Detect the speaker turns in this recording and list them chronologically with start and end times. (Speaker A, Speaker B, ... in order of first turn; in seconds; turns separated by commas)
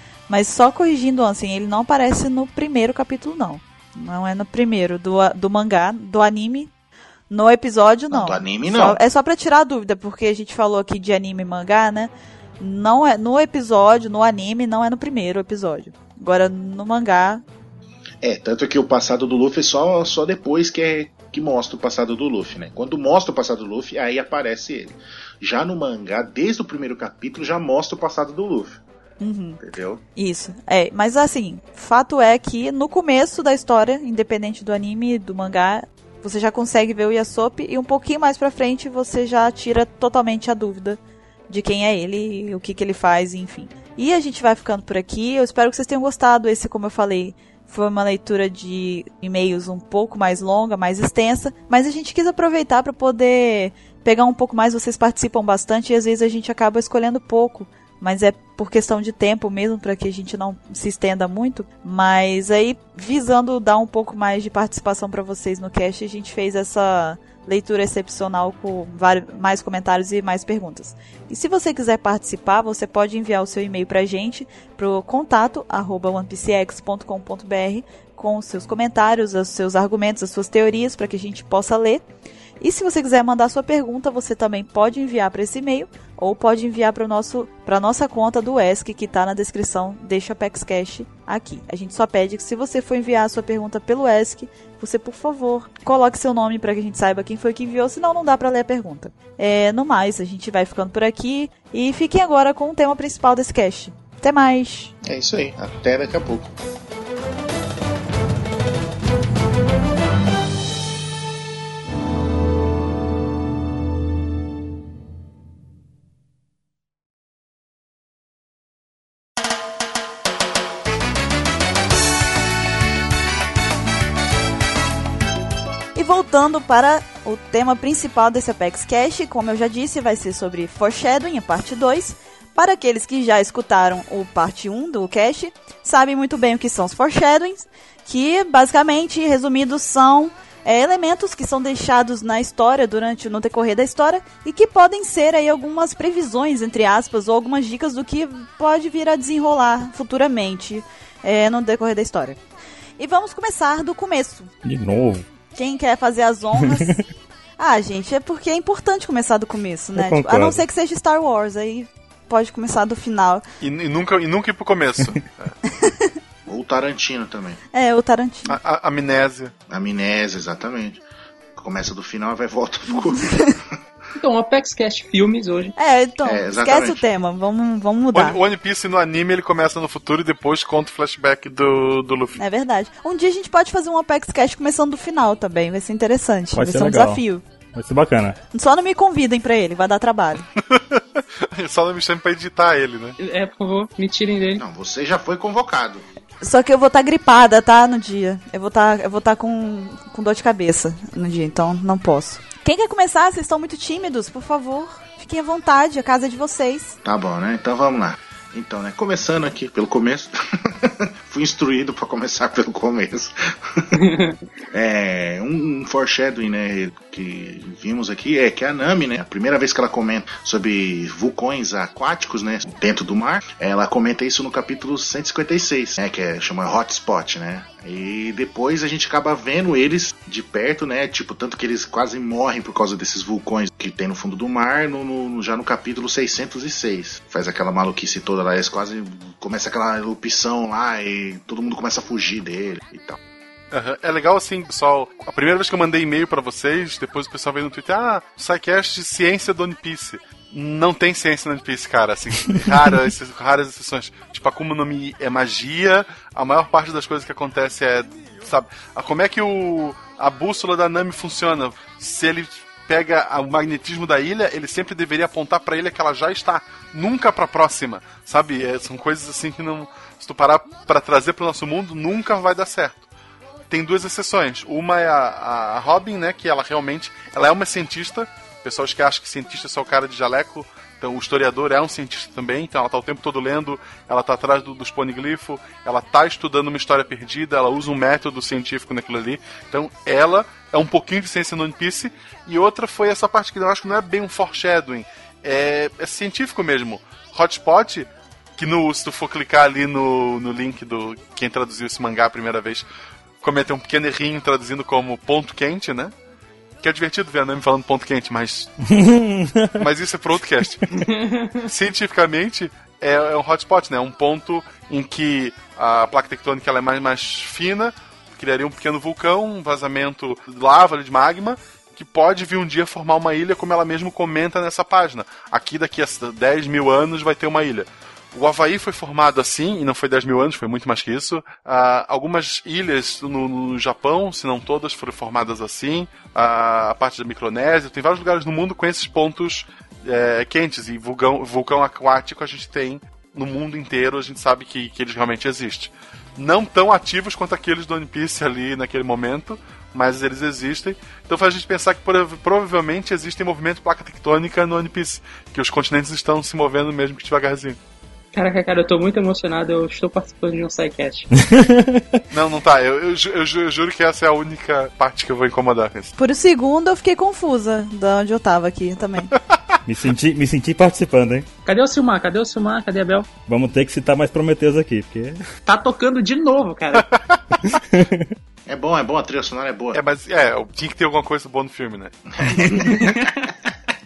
Speaker A: 0.3-6.7, Speaker A: 7.3-17.4, Speaker B: 8.1-9.0, Speaker B: 18.2-28.8, Speaker A: 29.2-29.6, Speaker B: 29.6-30.0, Speaker A: 30.2-82.0, Speaker A: 82.6-104.9, Speaker B: 105.0-106.5, Speaker A: 126.0-152.4, Speaker A: 153.0-154.5, Speaker C: 154.7-155.3, Speaker A: 155.5-157.0, Speaker C: 156.6-157.0, Speaker A: 157.6-163.4, Speaker C: 160.0-160.6, Speaker D: 163.6-165.6, Speaker A: 165.8-166.1, Speaker B: 166.5-167.6, Speaker A: 167.7-168.6, Speaker D: 168.5-169.5, Speaker B: 169.7-171.0, Speaker B: 171.6-173.7, Speaker E: 174.2-175.8, Speaker A: 175.8-178.4, Speaker B: 176.2-177.0, Speaker D: 178.1-182.4, Speaker A: 182.4-187.4, Speaker C: 186.5-187.2, Speaker C: 187.7-188.4, Speaker A: 188.5-190.5, Speaker D: 190.7-193.2, Speaker E: 193.2-194.6, Speaker B: 194.6-196.1, Speaker A: 196.4-207.0, Speaker B: 207.1-214.0, Speaker E: 213.9-214.4, Speaker B: 214.7-243.2, Speaker D: 243.7-273.1, Speaker D: 273.7-302.9, Speaker D: 303.4-306.1, Speaker D: 306.8-308.8, Speaker C: 308.9-309.8, Speaker D: 309.8-310.9, Speaker E: 310.9-311.6, Speaker D: 311.6-357.8, Speaker E: 358.3-361.3, Speaker C: 361.3-362.2, Speaker D: 362.3-366.1, Speaker A: 366.2-369.3, Speaker D: 369.3-369.8, Speaker C: 369.9-371.5, Speaker E: 371.6-373.3, Speaker C: 373.5-375.4, Speaker E: 375.7-377.2, Speaker D: 377.0-377.4, Speaker C: 377.6-378.4, Speaker B: 378.7-380.0, Speaker D: 379.9-382.8, Speaker B: 382.4-383.2, Speaker E: 382.6-383.5